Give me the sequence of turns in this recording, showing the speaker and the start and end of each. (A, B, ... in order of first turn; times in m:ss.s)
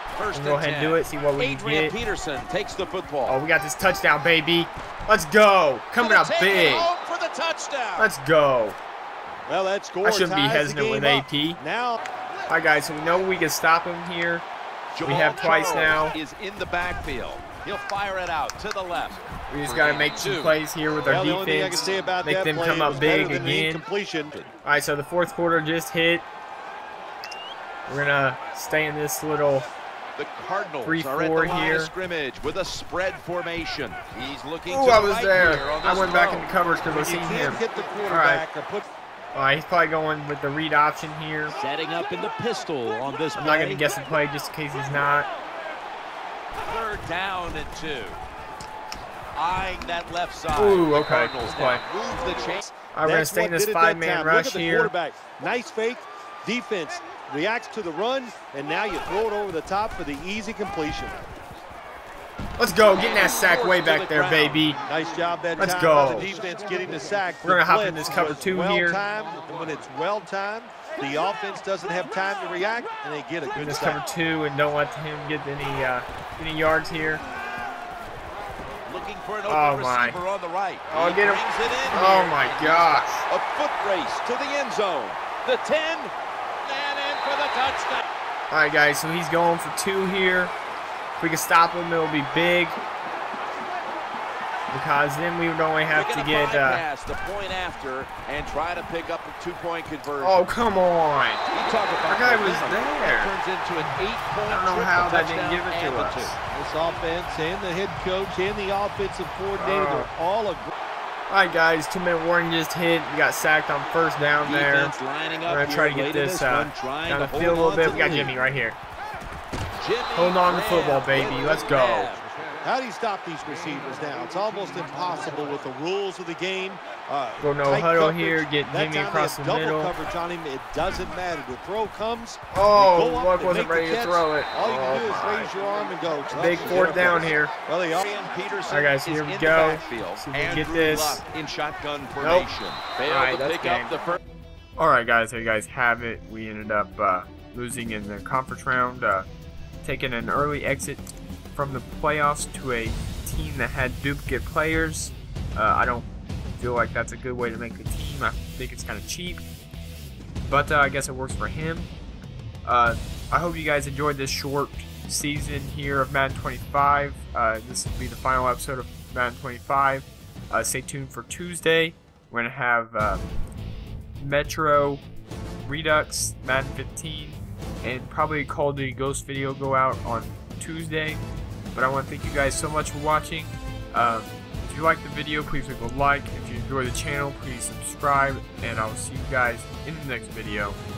0:00.2-0:03.4 A
0:00.3-0:02.0 B
0:03.3-0:06.9 B
0:06.0-0:08.1 A
0:08.0-0:08.8 B
0:09.5-0:12.0 C
0:10.0-0:11.6 B
0:12.5-0:14.4 B
0:15.0-0:20.6 A
0:15.0-0:16.2 B
0:19.5-0:23.8 B
0:21.1-0:24.3 C
0:22.9-0:23.5 A
0:24.6-0:26.3 B
0:27.9-0:29.7 B
0:30.2-0:36.5 A
0:30.8-0:31.9 B
0:34.7-0:38.4 B
0:36.9-0:38.9 C
0:39.3-0:41.6 B
0:41.5-0:43.9 A
0:43.4-0:45.3 B
0:46.7-0:48.2 A
0:49.3-0:52.7 A
0:50.5-0:51.8 B
0:52.9-0:54.9 B
0:53.0-1:01.3 C
1:02.6-1:04.8 B
1:03.0-1:04.6 A
1:04.8-1:14.0 C
1:05.6-1:06.3 B
1:07.4-1:09.0 B
1:13.6-1:17.2 B
1:18.9-1:26.1 A
1:19.5-1:20.2 B
1:20.9-1:23.2 B
1:26.6-1:28.0 A
1:28.5-1:30.5 B
1:31.2-1:32.8 B
1:34.7-1:36.8 B
1:35.9-1:40.5 A
1:40.2-1:41.4 B
1:41.5-1:46.4 A
1:42.1-1:46.4 B
1:46.5-1:50.7 C
1:49.6-1:50.1 B
1:51.3-1:55.0 B
1:54.4-1:58.3 A
1:55.5-1:58.8 B
1:59.8-2:02.3 A
2:00.2-2:02.1 B
2:02.6-2:18.0 C
2:07.4-2:09.9 B
2:12.5-2:15.5 B
2:16.4-2:17.5 B
2:18.0-2:24.2 A
2:18.7-2:21.2 B
2:22.2-2:22.5 B
2:23.1-2:23.9 B
2:24.8-2:29.3 B
2:29.8-2:31.0 B
2:31.6-2:39.4 B
2:40.5-2:41.9 B
2:42.6-2:53.3 B
2:54.2-2:55.0 B
2:55.6-3:01.2 B
3:01.7-3:10.8 B